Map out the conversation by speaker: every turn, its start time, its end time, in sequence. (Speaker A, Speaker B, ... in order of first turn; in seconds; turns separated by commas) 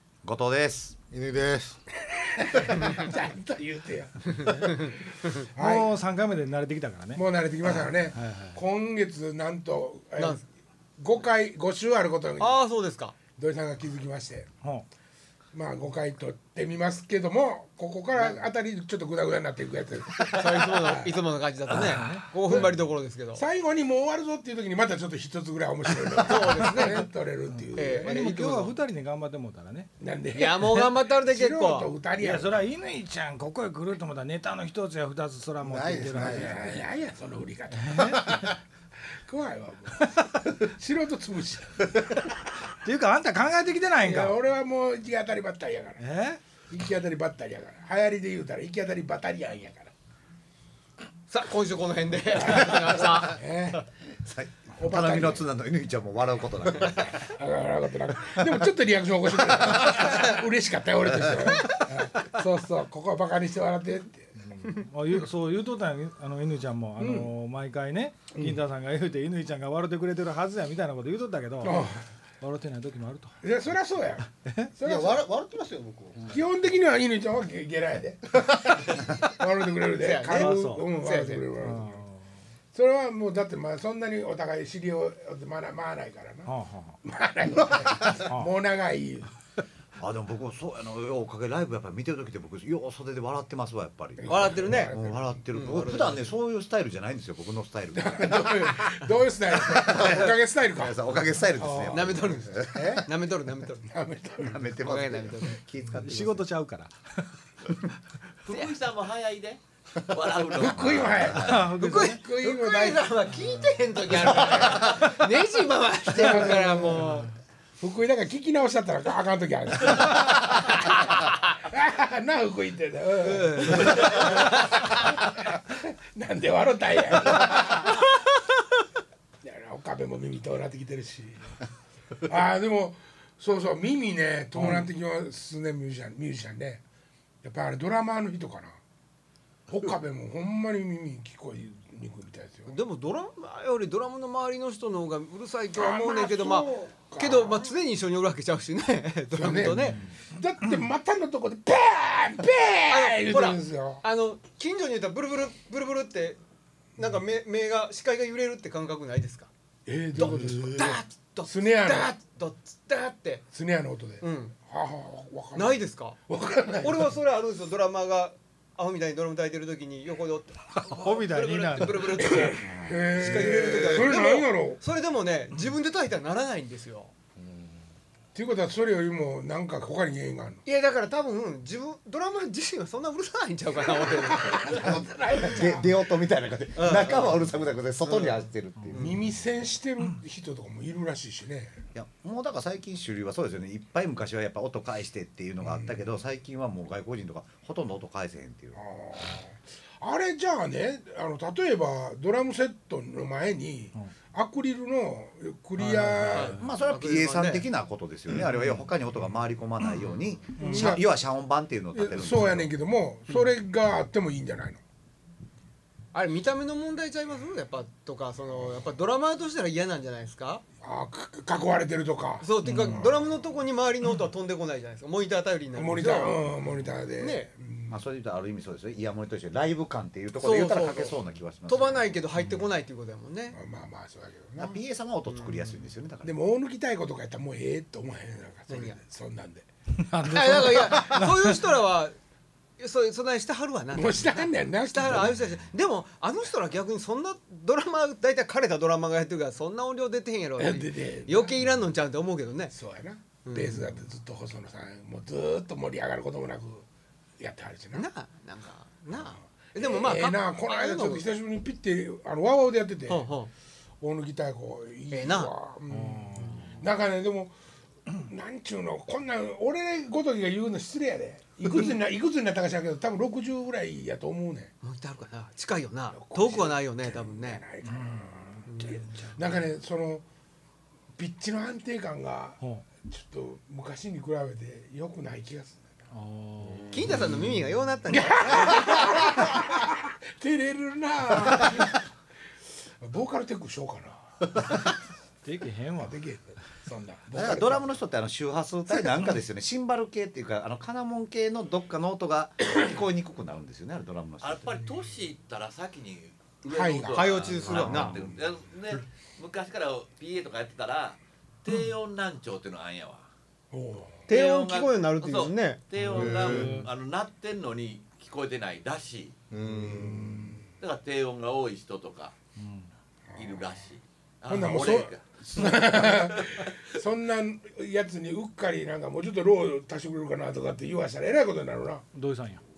Speaker A: 0.2-0.9, Speaker B: 1.1-1.8, Speaker C: 2.4-4.9, Speaker D: 4.4-4.7, Speaker E: 4.5-5.3, Speaker C: 5.5-5.9, Speaker D: 5.6-8.6, Speaker C: 7.2-10.4, Speaker E: 10.2-10.4, Speaker C: 11.0-12.6, Speaker E: 12.4-13.2, Speaker C: 13.4-14.5, Speaker C: 15.5-21.2, Speaker E: 18.1-18.4, Speaker E: 20.3-23.4, Speaker D: 21.8-22.7, Speaker C: 22.5-22.8, Speaker C: 23.3-28.3, Speaker E: 26.2-27.1, Speaker D: 27.5-29.9, Speaker E: 27.8-28.8, Speaker C: 30.0-32.5, Speaker E: 30.4-31.9, Speaker D: 32.1-36.7, Speaker B: 35.6-36.8, Speaker C: 36.2-38.4, Speaker D: 37.8-38.5, Speaker C: 39.3-42.3, Speaker D: 40.0-40.5, Speaker D: 42.7-44.4, Speaker C: 44.0-46.0, Speaker D: 46.0-46.4, Speaker C: 46.7-49.9, Speaker E: 51.3-53.8, Speaker C: 52.3-53.8, Speaker A: 54.2-57.2, Speaker C: 54.8-55.5, Speaker C: 56.8-64.3, Speaker D: 64.4-73.4, Speaker C: 67.0-67.3, Speaker C: 68.3-68.6, Speaker C: 71.6-72.0, Speaker C: 73.4-75.3, Speaker D: 74.4-74.7, Speaker B: 74.8-76.4, Speaker C: 76.3-82.0, Speaker E: 80.0-81.5, Speaker D: 80.3-80.9, Speaker D: 81.6-82.3, Speaker C: 82.7-86.5, Speaker D: 86.5-87.0, Speaker C: 87.0-89.3, Speaker D: 88.1-88.5, Speaker A: 90.0-98.8, Speaker C: 94.2-95.4, Speaker E: 94.3-94.9, Speaker E: 95.5-96.3, Speaker C: 97.9-101.0, Speaker A: 99.8-103.0, Speaker C: 101.5-102.9, Speaker E: 101.9-103.8, Speaker C: 103.9-104.7, Speaker A: 104.4-106.4, Speaker E: 104.8-105.6, Speaker D: 106.0-107.3, Speaker F: 108.5-111.4, Speaker C: 110.6-113.1, Speaker A: 110.6-111.7, Speaker D: 111.4-112.2, Speaker E: 111.8-117.3, Speaker C: 114.1-114.9, Speaker C: 116.2-117.1, Speaker C: 117.8-128.0, Speaker E: 123.2-124.9, Speaker C: 129.4-131.6, Speaker C: 132.2-136.8, Speaker C: 137.4-138.8, Speaker C: 139.7-142.7, Speaker E: 142.7-150.0, Speaker C: 145.7-147.7, Speaker C: 149.3-154.0, Speaker E: 152.9-156.4, Speaker E: 157.0-159.5, Speaker C: 159.9-162.2, Speaker E: 160.2-163.4, Speaker C: 163.5-167.1, Speaker E: 164.2-164.6, Speaker E: 165.6-166.2, Speaker E: 166.8-177.1, Speaker D: 170.8-172.4, Speaker C: 172.2-174.8, Speaker B: 173.3-174.0, Speaker C: 178.3-180.6, Speaker E: 180.7-184.9, Speaker C: 183.8-185.9, Speaker A: 184.9-189.2, Speaker E: 186.8-187.5, Speaker E: 188.0-189.2, Speaker D: 188.8-189.1, Speaker C: 189.0-191.8, Speaker A: 191.9-198.8, Speaker C: 195.6-196.1, Speaker C: 198.8-206.6, Speaker D: 205.8-206.6, Speaker E: 206.3-207.7, Speaker A: 206.6-212.7, Speaker D: 208.4-208.9, Speaker D: 210.6-210.9, Speaker C: 210.6-211.1, Speaker C: 211.9-214.8, Speaker E: 216.1-220.6, Speaker C: 220.8-223.2, Speaker E: 222.4-226.5, Speaker D: 222.6-223.1, Speaker C: 225.7-227.9, Speaker E: 227.0-227.5, Speaker A: 227.9-232.2, Speaker E: 230.4-233.6, Speaker C: 233.5-234.8, Speaker A: 234.6-236.3, Speaker E: 235.3-235.8, Speaker C: 236.2-239.7, Speaker E: 238.7-239.0, Speaker D: 240.0-241.6, Speaker E: 240.2-242.2, Speaker E: 242.8-252.7, Speaker C: 243.9-245.4, Speaker C: 250.6-251.5, Speaker C: 252.7-256.9, Speaker E: 253.4-253.9, Speaker C: 257.4-258.1, Speaker E: 257.9-261.3, Speaker C: 259.6-263.3, Speaker E: 263.1-263.5, Speaker C: 264.0-267.5, Speaker E: 265.1-265.5, Speaker D: 265.9-266.8, Speaker C: 268.1-274.7, Speaker E: 274.8-277.6, Speaker C: 276.1-280.2, Speaker D: 277.9-279.6, Speaker E: 278.7-279.0, Speaker C: 281.2-286.0, Speaker D: 282.6-282.9, Speaker D: 286.1-287.0, Speaker E: 286.9-288.7, Speaker C: 288.1-292.1, Speaker C: 293.0-294.7, Speaker D: 295.4-296.2, Speaker C: 296.0-298.0, Speaker A: 297.3-304.6, Speaker F: 304.4-313.3, Speaker E: 306.6-308.1, Speaker C: 306.7-308.2, Speaker A: 307.6-308.1, Speaker C: 313.7-314.2, Speaker F: 314.3-319.4, Speaker E: 314.3-315.8, Speaker B: 316.1-316.9, Speaker D: 316.1-316.9, Speaker B: 319.5-320.5, Speaker C: 319.7-320.6, Speaker F: 320.8-322.3, Speaker D: 322.6-322.9, Speaker C: 323.3-323.6, Speaker F: 323.4-326.7, Speaker C: 324.5-332.1, Speaker D: 332.1-332.6